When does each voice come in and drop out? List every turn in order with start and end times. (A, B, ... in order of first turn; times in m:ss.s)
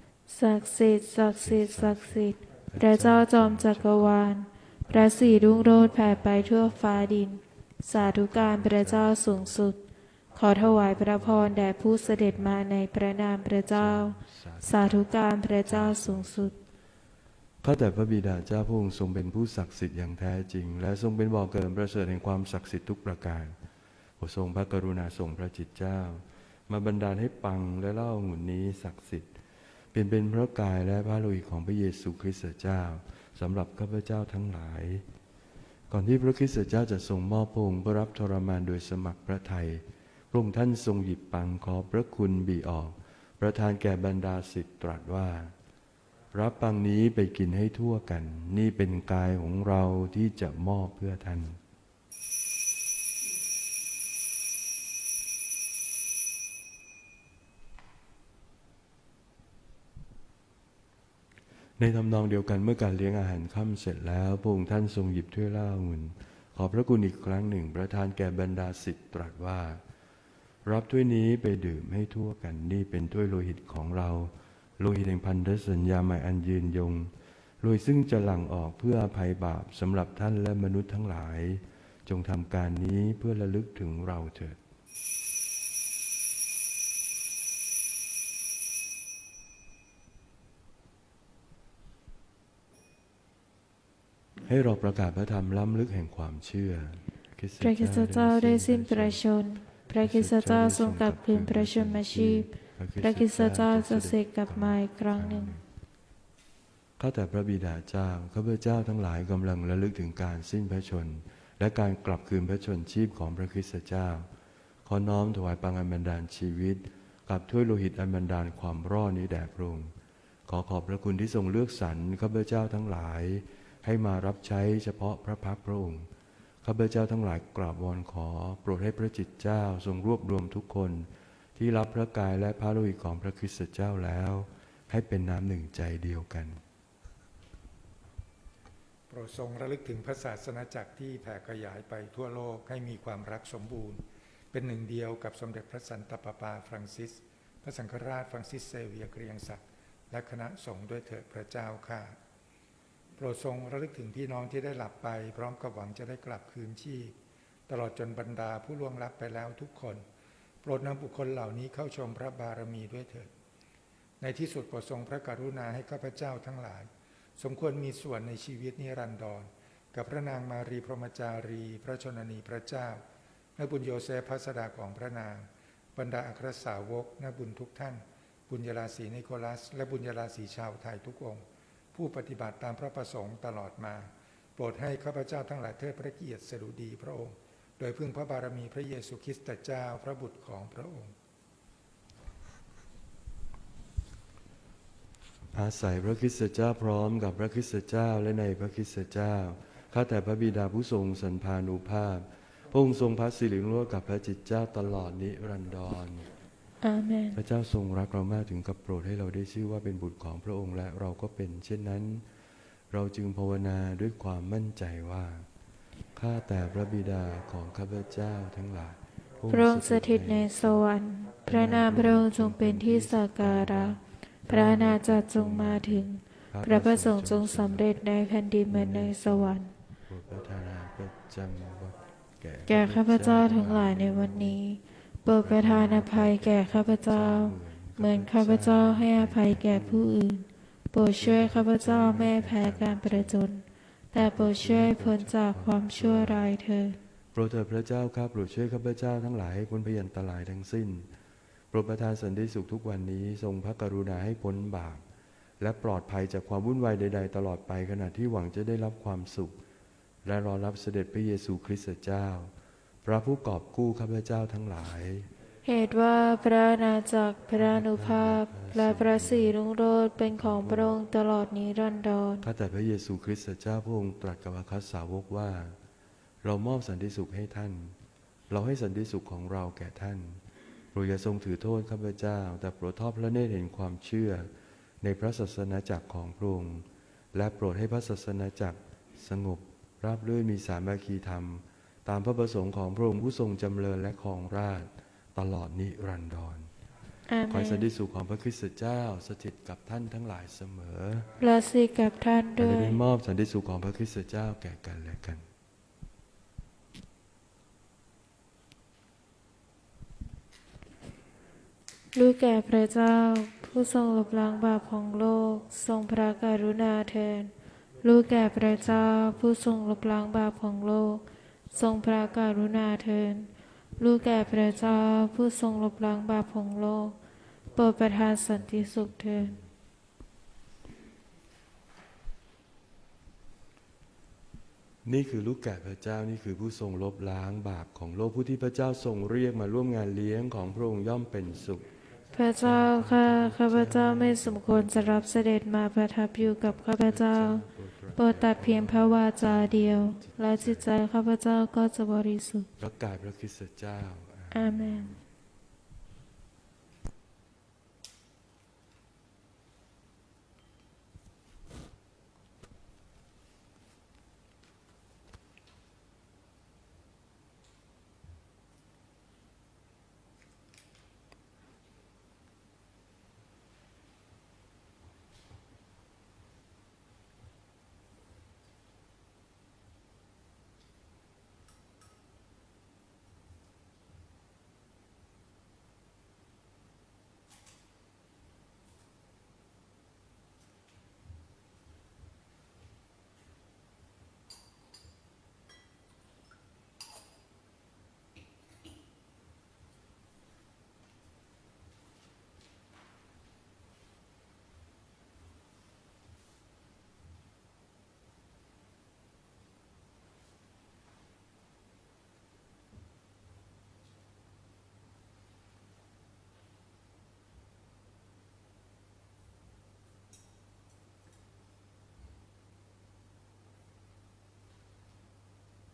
0:00.3-0:09.8 A
0:01.4-0:04.2 B
0:04.9-0:06.8 B
0:07.9-0:09.7 B
0:10.3-0:16.6 A
0:10.6-0:11.6 B
0:13.7-0:15.1 B
0:15.6-0:16.5 B
0:17.6-0:23.6 B
0:24.2-0:29.3 B
0:29.9-0:35.0 B
0:35.9-0:45.5 B
0:46.3-0:51.6 B
1:01.8-1:09.8 B
1:10.6-1:24.6 B
1:34.4-1:39.2 B
1:37.6-1:45.5 A
1:40.0-1:45.6 B
1:47.0-1:54.3 B
1:54.8-1:59.9 B
2:00.5-2:06.1 B
2:06.6-2:16.6 B
2:19.1-2:32.2 C
2:33.2-2:37.2 C
2:37.7-2:40.0 C
2:40.6-2:43.3 C
2:44.2-2:53.0 C
2:53.6-3:11.1 C
3:15.5-3:26.3 B
3:26.8-3:27.4 A
3:27.3-3:32.2 B
3:32.9-3:35.5 B
3:36.1-3:40.8 B
3:39.5-3:49.7 A
3:41.4-3:47.8 B
3:48.7-3:54.6 B
3:52.7-4:07.0 A
3:55.3-4:00.1 B
4:01.2-4:03.4 B
4:04.2-4:06.4 B
4:07.3-4:11.1 B
4:11.7-4:15.0 B
4:15.6-4:19.6 B
4:20.2-4:22.5 B
4:23.0-4:25.3 B
4:25.6-4:32.4 A
4:27.6-4:29.5 B
4:30.4-4:30.9 B
4:32.4-4:35.8 B
4:36.4-4:38.0 B
4:38.5-4:40.4 B
4:40.9-4:44.5 B
4:45.0-4:56.7 B
4:57.3-4:57.9 A
4:57.5-5:01.3 B
5:01.4-5:03.0 A
5:02.6-5:05.4 B
5:12.1-5:17.5 A
5:18.0-5:27.2 A
5:27.7-5:29.6 A
5:35.0-5:41.9 B
5:42.3-5:52.7 A
5:42.6-5:45.5 B
5:46.4-5:50.9 B
5:52.8-5:55.2 B
5:54.5-5:55.2 A